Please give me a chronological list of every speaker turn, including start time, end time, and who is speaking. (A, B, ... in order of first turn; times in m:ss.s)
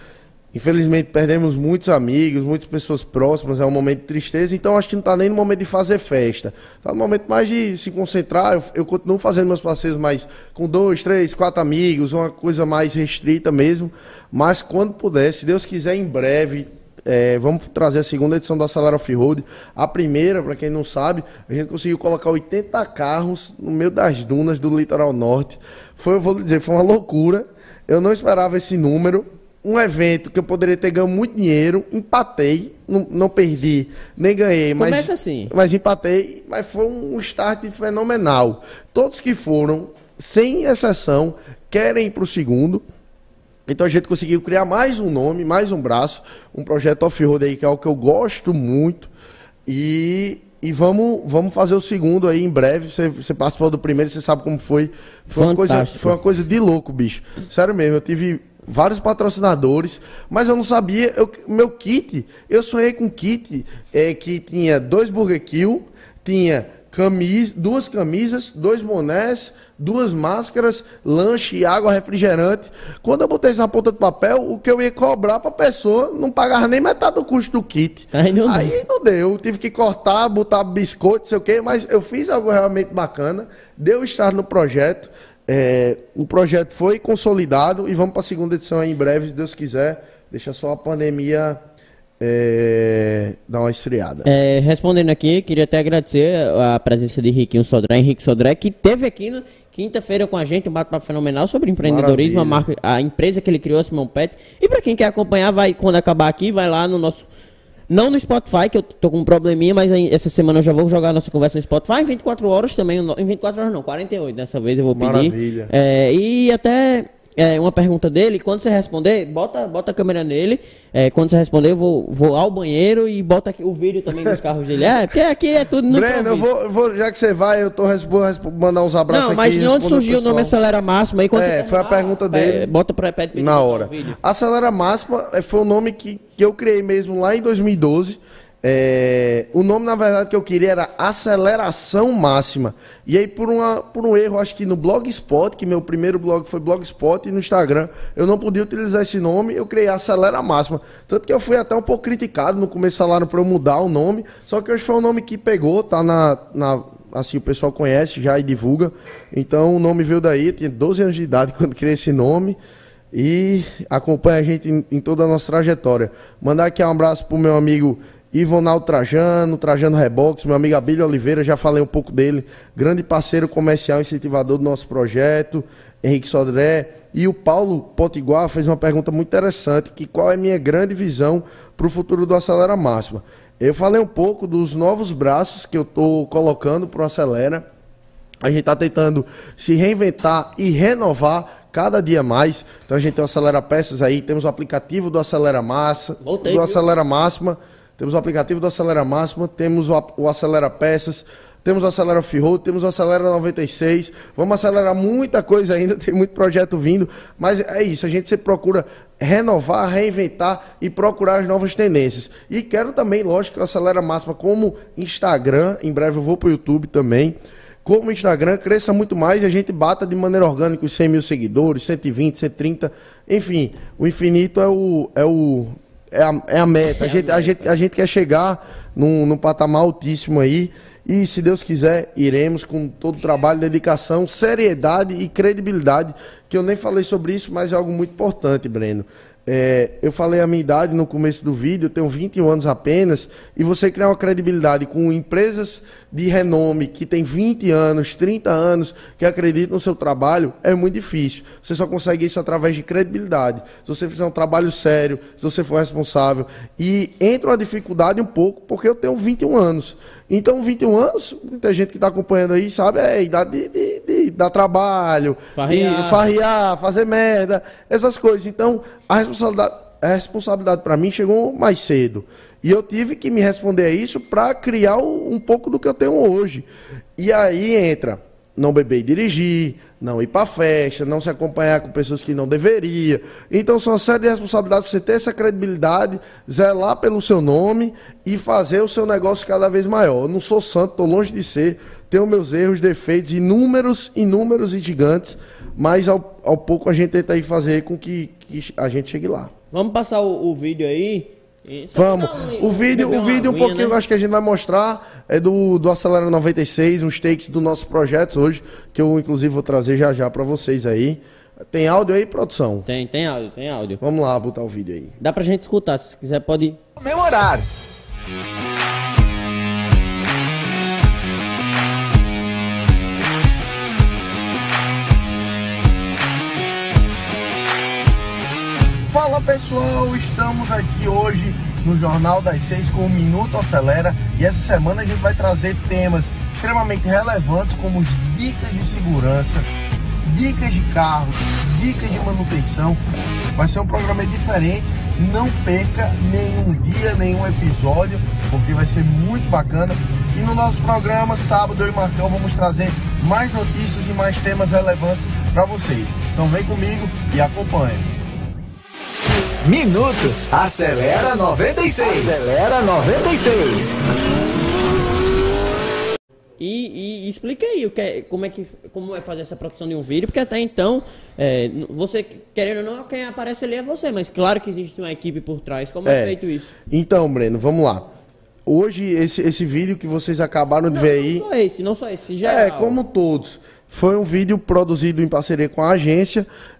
0:00.5-0:42.8 A
0:34.8-0:35.5 B
0:43.7-0:49.1 A
0:49.6-1:31.6 A
0:55.3-0:56.2 B
1:18.1-1:18.7 B
1:32.2-1:34.3 A
1:34.2-1:47.2 B
1:41.8-1:42.6 A
1:47.9-2:06.5 B
1:54.9-1:55.7 A
2:05.9-2:10.5 A
2:09.1-2:14.2 B
2:11.3-2:12.7 A
2:13.3-2:42.6 A
2:43.1-3:07.6 A
3:08.4-4:59.5 A
3:16.2-3:16.8 B
3:46.8-3:47.7 B
4:25.5-4:26.2 B
4:59.7-5:04.0 B
5:01.9-5:12.9 A
5:12.8-5:14.0 B
5:14.0-5:15.1 A
5:15.2-5:16.8 B
5:17.0-5:17.7 C
5:29.0-5:39.7 A
5:40.2-5:43.0 A
5:43.6-5:58.1 A
5:59.6-6:04.0 C
6:06.6-6:16.7 B
6:16.0-6:16.4 A
6:16.9-6:18.1 A
6:18.6-6:21.4 A
6:20.9-6:23.0 B
6:22.4-6:26.5 A